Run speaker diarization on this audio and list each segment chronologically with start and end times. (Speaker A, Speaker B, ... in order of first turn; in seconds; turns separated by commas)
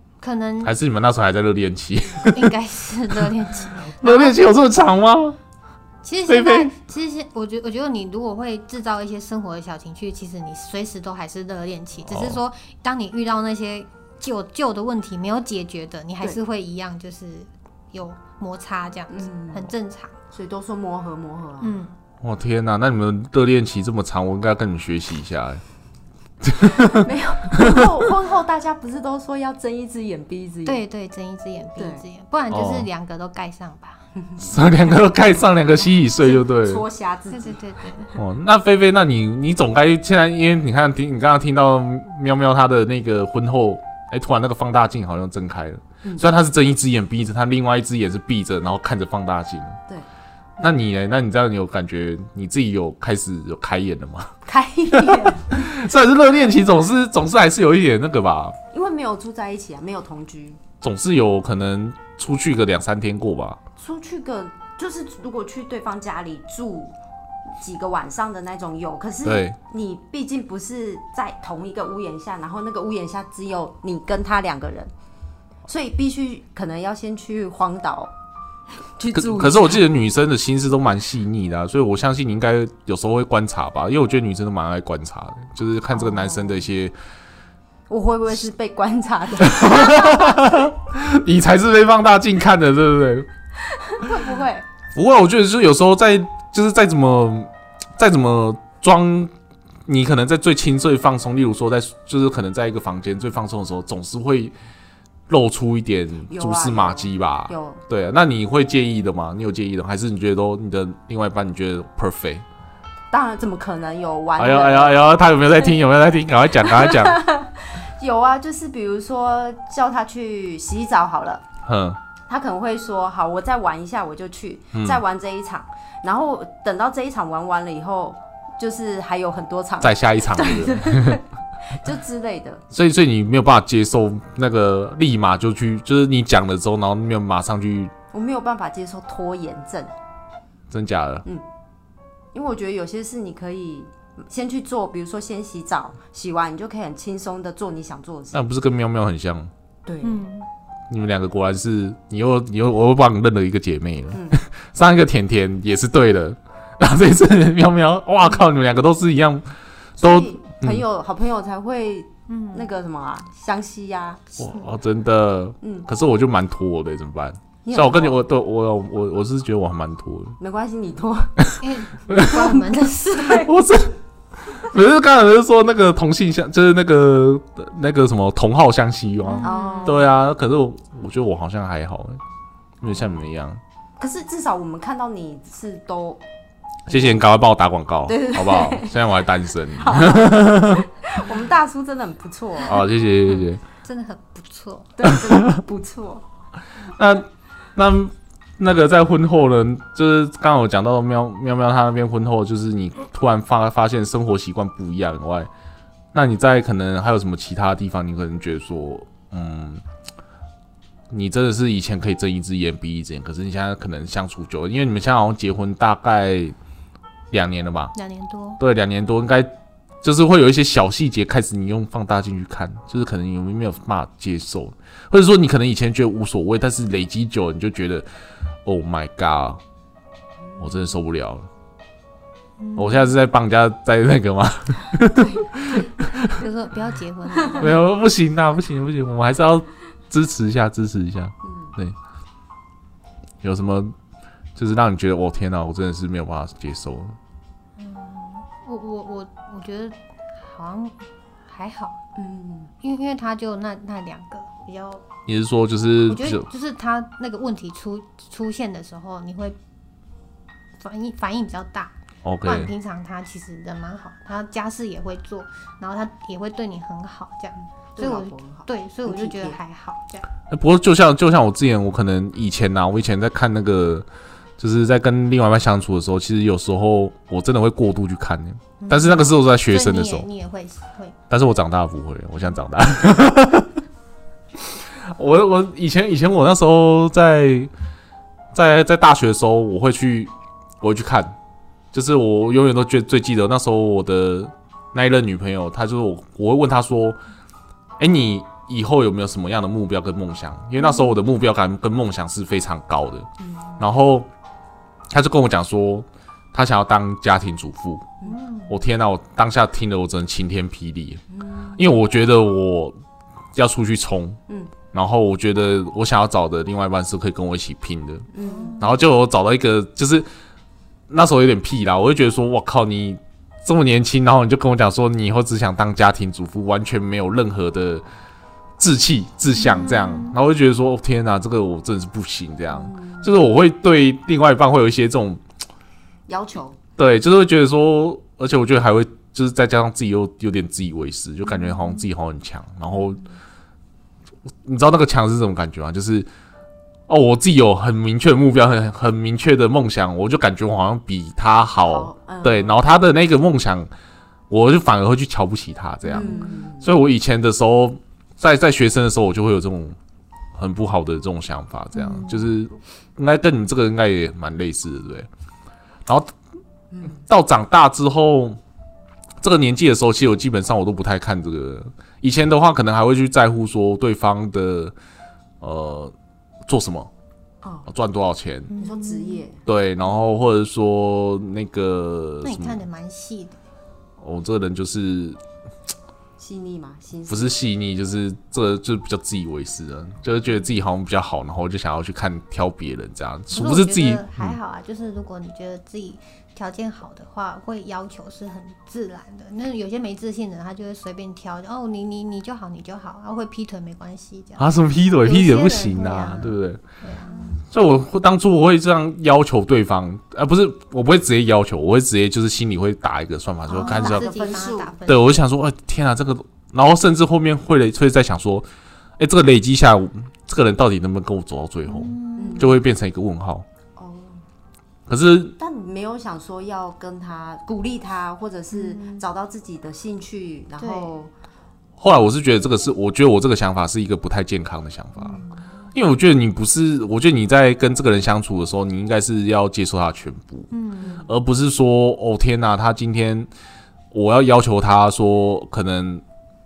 Speaker A: 0.2-0.8, Speaker B: 0.6-2.5, Speaker A: 2.3-4.4, Speaker B: 4.0-5.4, Speaker A: 6.0-20.1, Speaker B: 6.3-6.7, Speaker B: 12.1-12.4, Speaker C: 19.1-19.7, Speaker C: 20.3-21.8, Speaker A: 21.6-22.0, Speaker B: 22.2-25.6, Speaker B: 26.4-28.0, Speaker C: 26.8-30.8, Speaker A: 30.6-34.0, Speaker C: 31.8-32.0, Speaker B: 32.5-32.9, Speaker B: 34.4-36.8, Speaker C: 36.1-37.6, Speaker A: 37.3-38.2, Speaker B: 38.2-49.8, Speaker C: 46.0-46.3, Speaker B: 50.6-54.3, Speaker C: 54.5-55.7, Speaker B: 54.9-58.6, Speaker C: 58.7-60.6, Speaker B: 60.8-63.6, Speaker C: 63.8-67.0, Speaker C: 67.6-74.9, Speaker B: 69.2-69.6, Speaker C: 75.7-78.1, Speaker C: 79.0-79.8, Speaker B: 79.1-86.9, Speaker C: 85.9-86.7, Speaker C: 87.9-90.4, Speaker B: 89.4-93.3, Speaker C: 93.6-94.7, Speaker B: 95.0-99.3, Speaker B: 99.9-104.5, Speaker B: 105.3-112.4, Speaker C: 106.3-107.8, Speaker C: 113.1-115.7, Speaker B: 114.4-117.2, Speaker C: 116.6-121.4, Speaker B: 121.7-122.0, Speaker C: 122.3-132.6, Speaker B: 124.7-125.0, Speaker B: 129.8-131.2, Speaker B: 132.7-137.9, Speaker C: 138.1-139.9, Speaker B: 140.7-141.2, Speaker C: 142.3-148.4, Speaker B: 148.3-149.5, Speaker C: 149.9-150.2, Speaker A: 150.0-150.5, Speaker B: 150.9-159.4, Speaker C: 154.1-154.4, Speaker B: 160.0-160.8, Speaker C: 160.0-164.2, Speaker A: 162.3-162.7, Speaker A: 164.3-164.7, Speaker B: 164.4-170.4, Speaker C: 165.6-165.9, Speaker C: 167.7-168.2, Speaker C: 170.4-171.4, Speaker A: 171.6-173.5, Speaker B: 172.1-172.5, Speaker C: 173.2-173.4, Speaker B: 173.5-173.9, Speaker B: 174.5-182.2, Speaker A: 179.2-180.1, Speaker C: 179.4-180.1, Speaker B: 182.8-183.6, Speaker C: 184.0-186.2, Speaker B: 186.9-190.9, Speaker C: 186.9-187.2, Speaker C: 188.1-189.1, Speaker C: 189.8-192.8, Speaker B: 192.7-193.6, Speaker A: 193.8-194.9, Speaker C: 195.0-196.2, Speaker B: 195.1-195.6, Speaker B: 196.9-205.5, Speaker B: 206.1-209.8, Speaker B: 211.1-216.6, Speaker B: 217.3-217.9, Speaker A: 217.9-218.6, Speaker B: 218.6-219.5, Speaker B: 220.0-228.1, Speaker B: 228.7-229.6, Speaker C: 230.5-230.8, Speaker B: 230.6-231.5, Speaker A: 232.6-233.2, Speaker B: 232.8-236.4, Speaker C: 235.2-235.8, Speaker A: 236.2-237.8, Speaker B: 237.6-242.0, Speaker C: 241.4-241.8, Speaker B: 243.4-243.9, Speaker B: 244.6-247.2, Speaker A: 247.8-252.0, Speaker C: 252.2-252.7, Speaker A: 252.8-255.0, Speaker B: 255.3-256.5, Speaker A: 256.1-259.6, Speaker A: 260.8-261.9, Speaker B: 262.2-262.7, Speaker A: 262.4-270.3, Speaker C: 268.0-269.6, Speaker B: 270.5-274.1, Speaker B: 274.6-280.3, Speaker A: 278.8-281.2, Speaker B: 281.3-283.7, Speaker B: 284.8-287.7, Speaker B: 288.5-291.3, Speaker B: 291.9-297.2, Speaker B: 298.0-303.3, Speaker A: 300.8-301.1, Speaker C: 303.4-303.8, Speaker B: 303.8-304.3, Speaker B: 305.1-308.1, Speaker A: 308.2-308.8, Speaker B: 308.7-311.2, Speaker C: 311.3-311.9, Speaker B: 311.8-313.0, Speaker B: 313.6-314.4, Speaker B: 314.9-318.3, Speaker C: 318.3-318.8, Speaker A: 318.4-319.0, Speaker B: 318.8-320.3, Speaker B: 321.1-328.0, Speaker B: 328.8-335.4, Speaker A: 329.6-330.4, Speaker C: 332.7-333.4, Speaker C: 336.3-336.8, Speaker B: 337.0-343.2, Speaker A: 341.5-341.9, Speaker C: 342.9-343.2, Speaker B: 344.6-346.3, Speaker B: 347.1-353.9, Speaker C: 351.8-352.8, Speaker B: 354.5-360.0, Speaker A: 356.1-356.7, Speaker C: 356.1-356.9, Speaker B: 360.6-365.3, Speaker A: 361.9-362.5, Speaker B: 366.1-366.3, Speaker B: 367.1-368.6, Speaker B: 369.4-374.9, Speaker B: 375.6-376.1, Speaker B: 376.7-377.1, Speaker C: 377.6-377.9, Speaker B: 377.9-378.7, Speaker A: 378.7-379.4, Speaker C: 378.8-379.6, Speaker B: 379.7-382.8, Speaker A: 382.4-383.6, Speaker B: 384.2-385.4, Speaker C: 386.4-387.6, Speaker B: 387.3-394.6, Speaker A: 393.5-407.6, Speaker B: 404.6-406.8, Speaker C: 407.2-407.6, Speaker B: 407.7-414.3, Speaker A: 413.7-415.4, Speaker C: 413.8-414.9, Speaker B: 415.1-418.7, Speaker B: 419.2-423.7, Speaker A: 421.9-422.8, Speaker C: 422.4-422.8, Speaker C: 424.0-424.4, Speaker B: 425.1-425.6, Speaker C: 425.6-431.3, Speaker A: 428.7-429.2, Speaker A: 430.8-431.1, Speaker B: 432.0-435.4, Speaker A: 435.2-435.6, Speaker B: 435.9-440.7, Speaker A: 440.7-441.2, Speaker C: 441.0-441.3, Speaker B: 441.2-443.5, Speaker B: 444.1-446.2